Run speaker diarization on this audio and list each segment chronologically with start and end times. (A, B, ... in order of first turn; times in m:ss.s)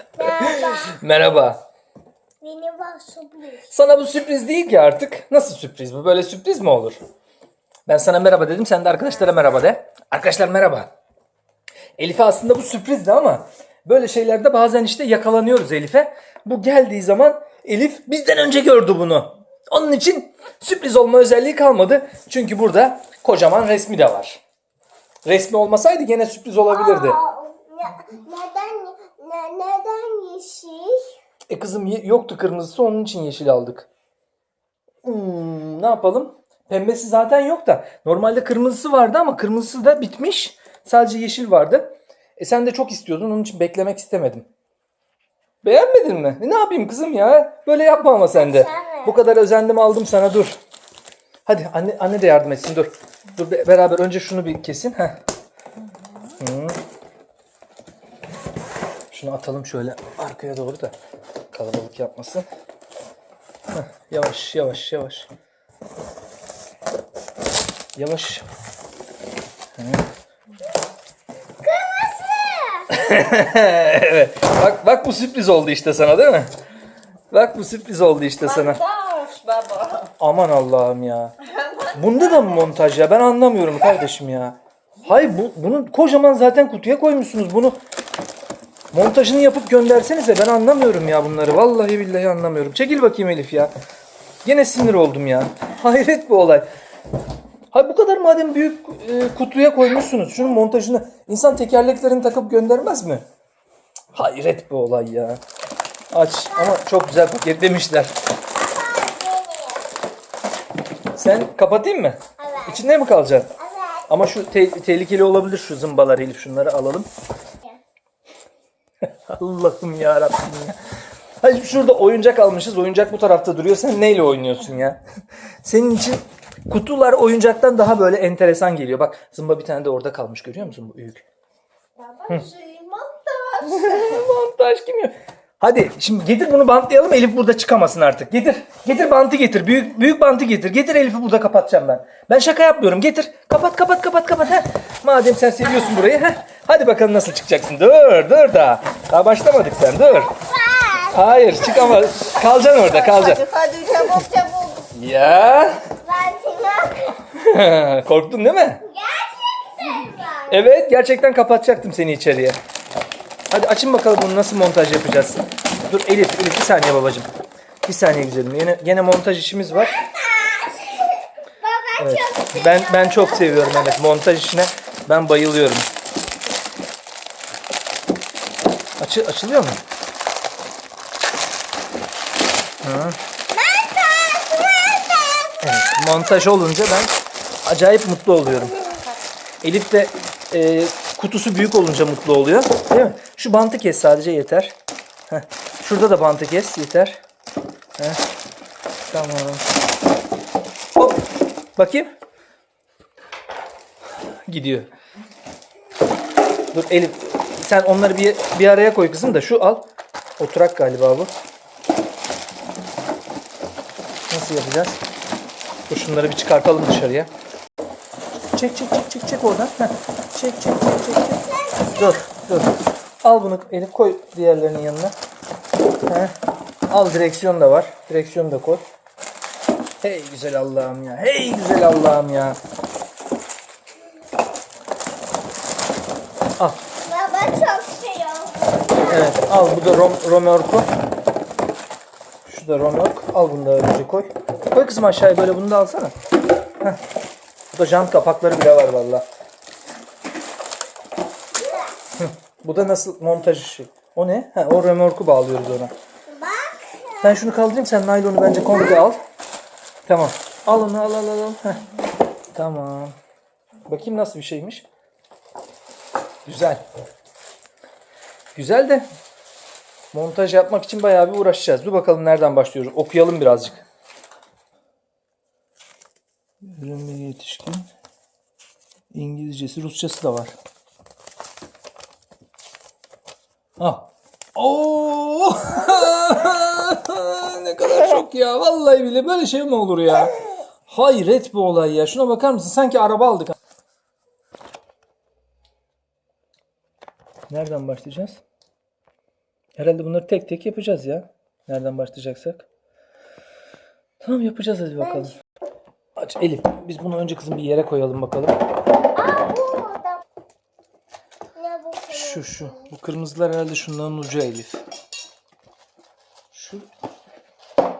0:00.2-0:01.0 A
0:00.4-0:01.6 B
0:02.4-0:03.7 A
0:03.7-0:07.0 B
0:07.8-0:10.9 B
0:12.0-0:24.4 B
0:25.2-0:27.2 B
0:26.7-0:31.0 A
0:31.5-0:33.9 B
0:35.0-0:44.5 B
0:45.6-0:50.6 B
0:48.3-0:49.2 A
0:51.4-0:55.2 B
0:56.4-0:56.8 B
0:59.1-1:00.9 B
1:01.5-1:02.5 B
1:03.7-1:05.3 B
1:08.0-1:08.4 B
1:09.8-1:10.0 B
1:11.6-1:13.2 A
1:12.9-1:16.5 B
1:17.3-1:18.8 B
1:18.5-1:20.1 C
1:20.2-1:21.3 B
1:21.6-1:22.0 C
1:21.8-1:27.8 B
1:28.9-1:33.7 B
1:34.4-1:36.6 B
1:37.7-1:43.2 B
1:44.1-1:45.4 B
1:46.1-1:48.1 B
1:46.5-1:46.8 A
1:48.5-1:49.9 A
1:51.1-1:53.5 B
1:52.4-1:52.8 A
1:53.6-1:54.1 A
1:54.1-1:57.1 B
1:59.3-2:05.0 B
2:05.6-2:11.2 B
2:12.0-2:14.2 C
2:13.6-2:30.3 B
2:30.3-2:31.4 A
2:31.1-2:33.5 B
2:32.3-2:34.9 C
2:34.9-2:35.9 B
2:36.0-2:37.2 A
2:37.3-2:38.8 B
2:38.8-2:40.7 A
2:40.5-2:42.6 B
2:43.5-2:47.3 B
2:47.8-2:50.0 B
2:50.0-2:54.0 A
2:52.0-2:55.9 B
2:59.0-2:59.8 B
3:02.8-3:03.2 B
3:03.5-3:05.6 A
3:05.6-3:07.1 B
3:07.6-3:08.9 B
3:09.6-3:14.8 B
3:15.3-3:17.2 B
3:19.1-3:19.6 B
3:21.0-3:22.1 B
3:24.5-3:24.9 B
3:26.7-3:29.8 B
3:30.4-3:31.3 B
3:34.3-3:35.0 B
3:35.9-3:37.3 B
3:38.5-3:45.2 B
3:41.5-3:42.2 A
3:46.0-3:46.3 B
3:46.9-3:48.8 B
3:50.0-3:52.6 B
3:57.0-3:59.3 A
3:59.0-4:00.9 B
4:02.4-4:06.1 B
4:07.7-4:09.2 B
4:11.6-4:12.0 A
4:12.2-4:15.9 B
4:16.3-4:17.4 A
4:17.2-4:19.2 B
4:20.0-4:21.8 B
4:22.5-4:23.2 B
4:23.8-4:24.8 B
4:26.4-4:26.8 B
4:28.5-4:29.0 B
4:30.1-4:33.8 B
4:36.6-4:37.9 B
4:39.1-4:40.5 B
4:43.8-4:53.6 B
4:57.5-4:58.4 B
4:59.8-5:02.7 B
5:04.2-5:05.4 B
5:06.2-5:08.6 B
5:09.1-5:10.2 A
5:11.5-5:12.9 A
5:12.1-5:14.8 B
5:16.5-5:16.9 B